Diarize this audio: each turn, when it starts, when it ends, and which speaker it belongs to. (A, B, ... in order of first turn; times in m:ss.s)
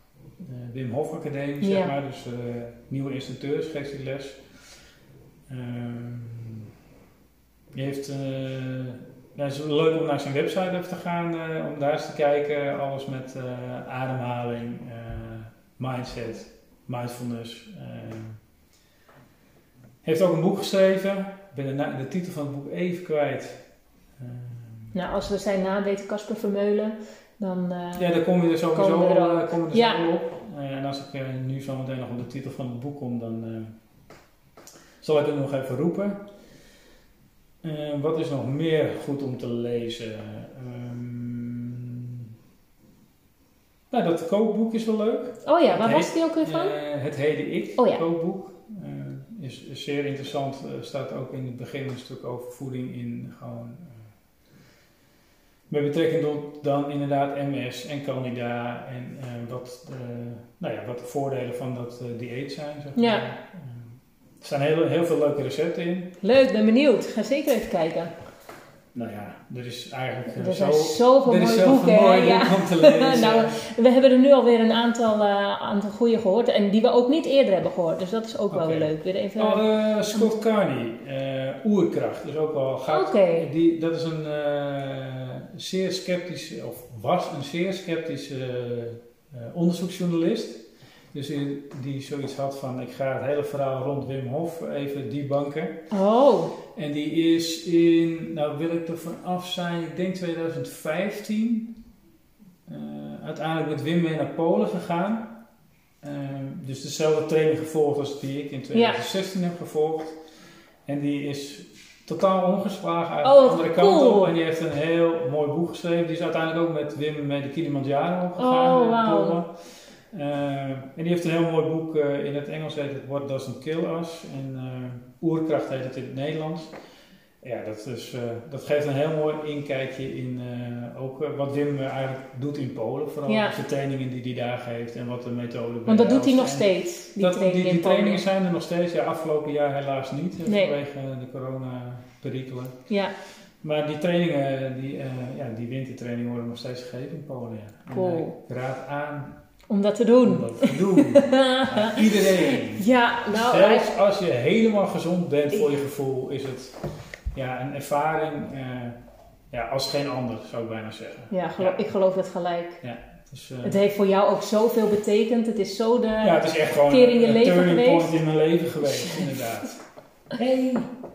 0:00.4-0:04.4 A
0:01.6-0:01.9 B
0:05.5-0:06.7 A
0:07.7-0:18.4 A
0:20.0-0:23.6 A
0:24.2-0:24.9 A
0:24.9-0:28.1 B
0:28.0-0:33.8 A
0:28.7-0:30.0 B
0:35.0-0:36.2 A
0:37.6-0:42.3 A
0:43.9-0:54.1 A
0:45.4-0:46.7 B
0:47.8-0:48.0 B
0:55.7-1:06.2 A
1:03.0-1:03.3 B
1:06.2-1:08.1 B
1:08.9-1:13.6 A
1:10.4-1:19.6 B
1:18.5-1:35.8 A
1:22.9-1:23.5 B
1:35.9-1:36.6 B
1:36.7-1:41.8 A
1:42.7-1:45.4 A
1:46.0-1:50.2 A
1:48.7-1:49.0 B
1:50.9-2:06.7 A
1:53.2-1:54.3 B
1:58.4-1:59.4 B
2:07.4-2:22.8 A
2:13.3-2:13.6 B
2:15.9-2:18.2 B
2:20.5-2:20.7 B
2:22.9-2:23.1 B
2:23.6-2:29.4 A
2:27.9-2:28.4 B
2:29.7-2:33.9 B
2:30.2-2:36.8 A
2:37.3-2:39.0 A
2:39.5-2:41.8 A
2:41.3-2:42.8 B
2:42.8-2:43.8 A
2:43.6-2:48.2 B
2:46.2-2:49.8 A
2:48.9-2:49.2 B
2:50.3-2:50.9 A